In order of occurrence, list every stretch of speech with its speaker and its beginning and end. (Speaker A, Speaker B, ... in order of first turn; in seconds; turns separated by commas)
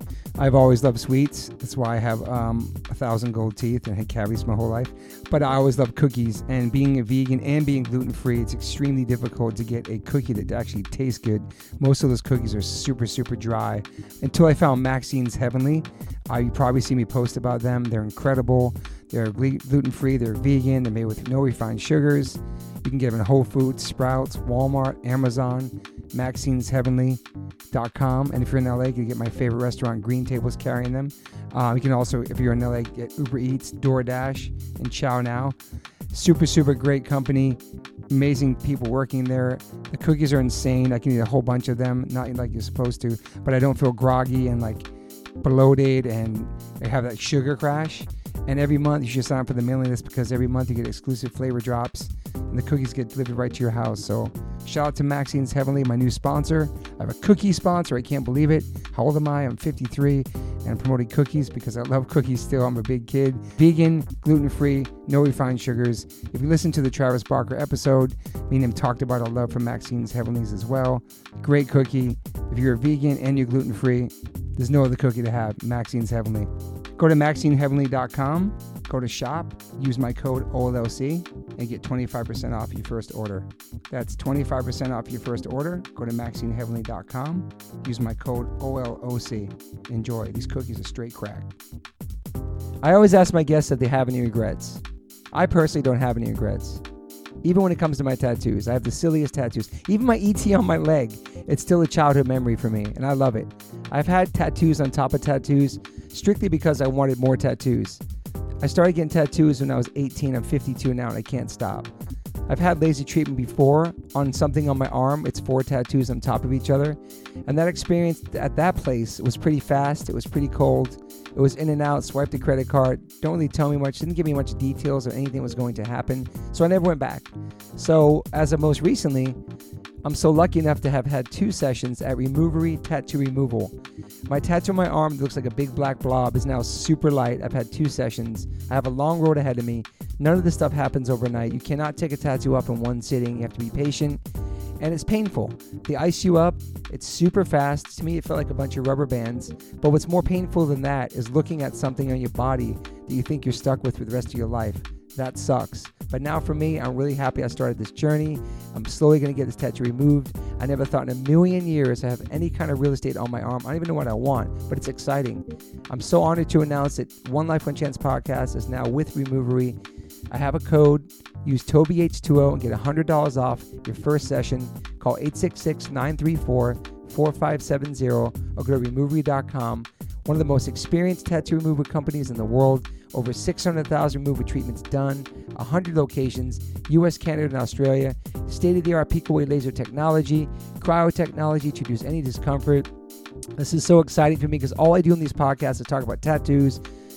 Speaker A: 0.4-35.6, Speaker A: 36.1-44.9, Speaker A: 45.4-91.5, Speaker A: 92.8-96.8, Speaker A: 97.4-108.0, Speaker A: 108.6-111.9, Speaker A: 112.5-129.4, Speaker A: 130.0-133.8, Speaker A: 134.3-144.2, Speaker A: 144.8-169.8, Speaker A: 170.3-192.9, Speaker A: 193.6-196.8